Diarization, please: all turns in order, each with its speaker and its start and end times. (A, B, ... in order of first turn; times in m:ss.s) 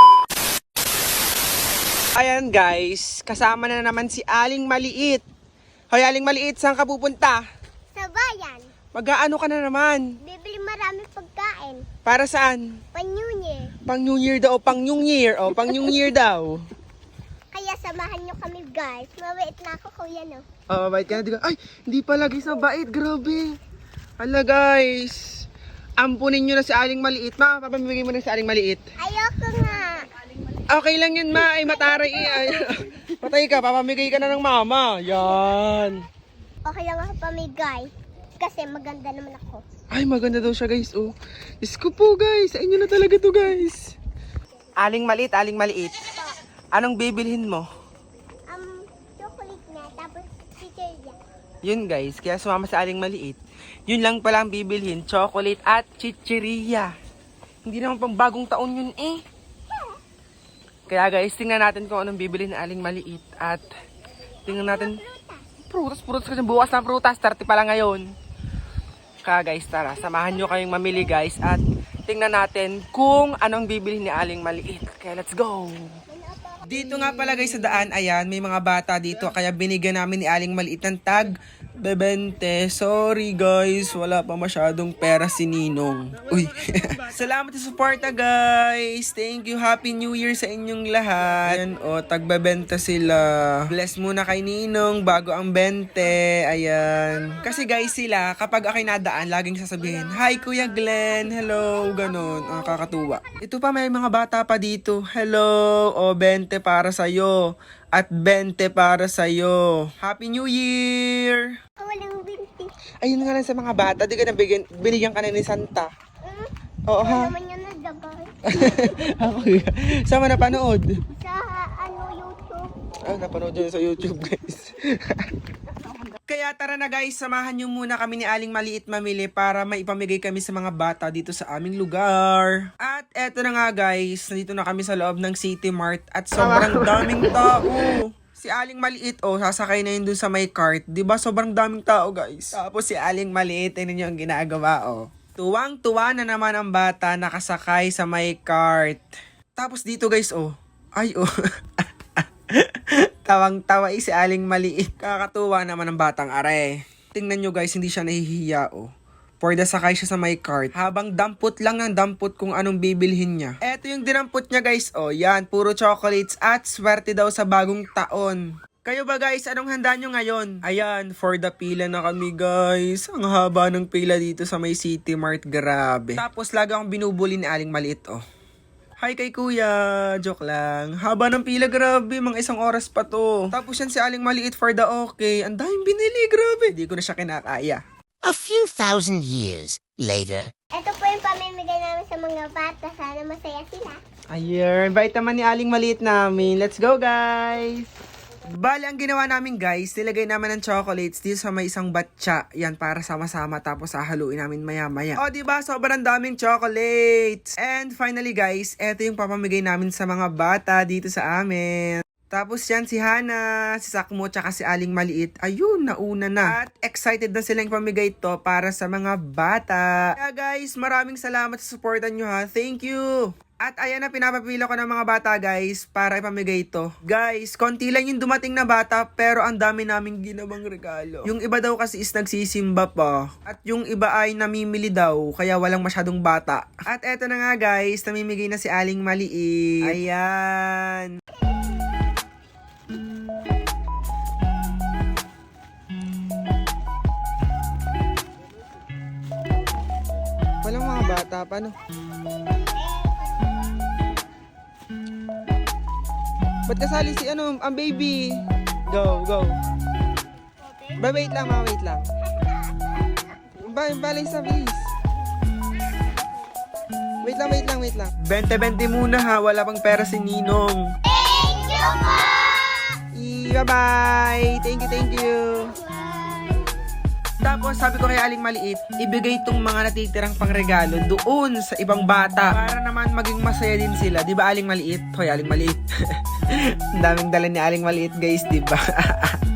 0:02.2-0:05.2 A
0:05.9-0:07.4 A
0:07.9-0:08.7 B
0:08.9-0:10.0 A
0:10.2-0:11.8 B
0:12.0-0:12.8 A
0:12.9-0:13.7 B
0:13.8-0:16.6 A
0:17.5-0:20.4 B
0:20.7-0:23.5 A
0:24.2-0:25.2 A
0:26.0-0:28.8 A
0:29.0-0:30.0 B
0:30.7-0:36.0 A
0:31.6-0:32.6 B
0:36.6-0:39.6 B
0:39.9-0:43.9 A
0:44.8-0:46.1 A
0:46.7-0:47.7 A
0:48.5-0:51.2 B
0:51.6-0:56.9 A
0:57.6-0:59.2 A
1:00.9-1:03.7 A
1:04.4-1:05.4 B
1:04.5-1:05.0 A
1:05.7-1:08.1 A
1:09.2-1:15.9 A
1:16.1-1:17.0 B
1:16.7-1:47.4 A
1:47.9-1:51.4 A
1:51.8-1:52.7 B
1:53.0-1:55.9 A
1:56.2-1:58.3 B
1:56.9-1:57.3 A
1:58.5-2:01.0 A
2:01.1-2:02.7 B
2:03.0-2:05.4 A
2:06.3-2:38.9 A
2:39.4-2:58.2 A
2:59.0-3:07.8 A
3:08.2-3:10.5 C
3:10.8-3:14.0 B
3:14.3-3:17.9 A
3:18.6-3:43.1 A
3:43.6-4:01.1 A
4:10.6-4:11.7 A
4:12.8-4:13.6 B
4:16.7-4:19.5 A
4:20.7-4:20.9 B
4:21.0-4:22.1 A
4:22.2-4:23.4 B
4:23.6-4:24.9 A
4:27.2-4:30.8 A
4:31.0-4:33.0 B
4:33.1-4:35.7 A
4:35.4-4:36.7 B
4:37.4-4:45.8 A
4:46.5-4:49.4 A